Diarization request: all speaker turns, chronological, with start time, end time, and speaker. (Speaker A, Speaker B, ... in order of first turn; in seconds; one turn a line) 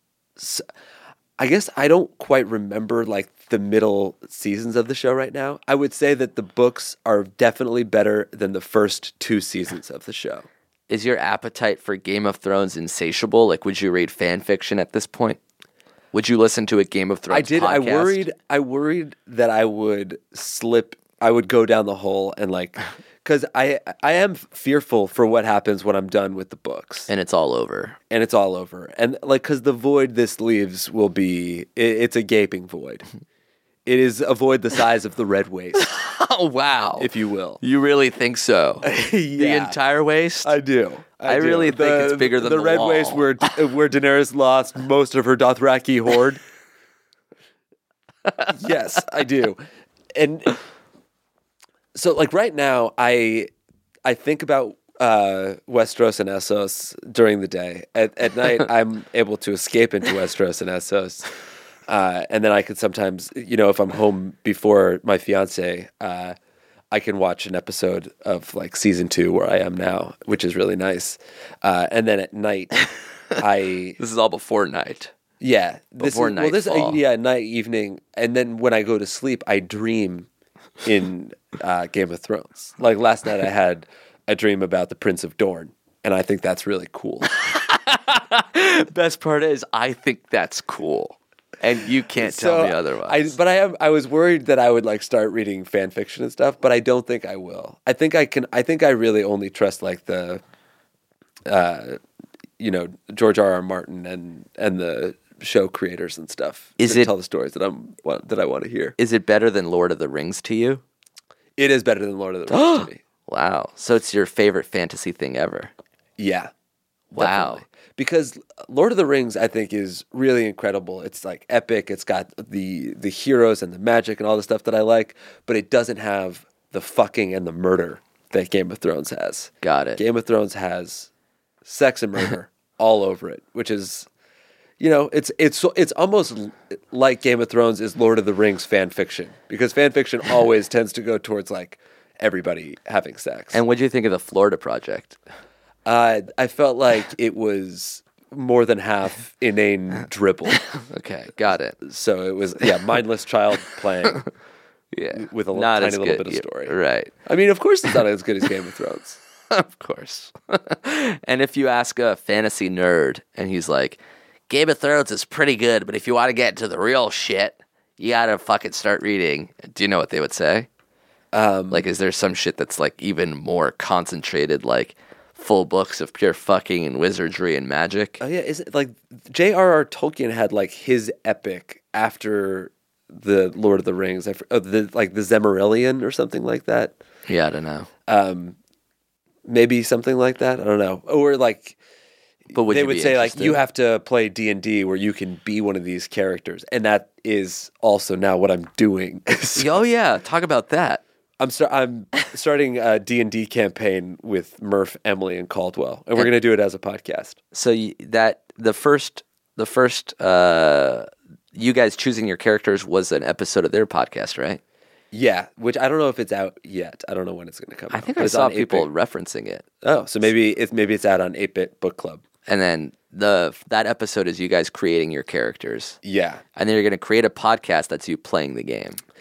Speaker A: 0.4-0.6
Speaker A: 1.4-10.5
Speaker B: 10.9-15.4
Speaker B: 16.1-18.2
Speaker A: 17.3-27.1
Speaker B: 27.1-28.0
Speaker A: 28.1-33.0
Speaker A: 33.9-35.9
Speaker B: 35.8-37.1
Speaker A: 37.0-37.6
Speaker B: 37.6-40.5
Speaker A: 38.8-39.8
Speaker A: 40.4-46.4
Speaker B: 41.2-43.4
Speaker A: 48.5-50.6
Speaker A: 51.9-53.5
Speaker A: 54.0-61.3
Speaker A: 61.9-66.3
Speaker A: 66.9-72.8
Speaker A: 73.3-74.0
Speaker B: 74.0-75.1
Speaker A: 75.4-80.3
Speaker B: 76.0-77.0
Speaker A: 80.8-87.3
Speaker B: 87.5-93.3
Speaker A: 92.2-100.4
Speaker A: 101.5-102.0
Speaker A: 102.6-108.9
Speaker B: 106.8-107.1
Speaker B: 109.0-110.8
Speaker A: 111.6-113.0
Speaker B: 112.5-115.7
Speaker A: 116.2-116.5
Speaker B: 117.1-117.6
Speaker A: 117.1-131.1
Speaker B: 129.6-130.0
Speaker A: 131.6-134.1
Speaker A: 134.8-143.6
Speaker B: 143.5-145.2
Speaker A: 145.8-150.6
Speaker B: 150.7-151.8
Speaker A: 151.8-154.2
Speaker B: 154.9-157.1
Speaker A: 155.1-159.2
Speaker B: 159.5-170.7
Speaker A: 171.3-171.9
Speaker B: 171.7-178.2
Speaker A: 178.2-186.9
Speaker B: 187.3-187.9
Speaker A: 188.1-188.6
Speaker A: 189.4-191.8
Speaker B: 192.5-193.6
Speaker A: 192.6-199.8
Speaker B: 199.6-201.0
Speaker A: 201.4-207.4
Speaker B: 207.5-214.6
Speaker A: 215.1-218.9
Speaker B: 217.9-219.6
Speaker A: 219.8-222.2
Speaker B: 222.5-226.0
Speaker A: 226.0-226.4
Speaker B: 226.6-229.0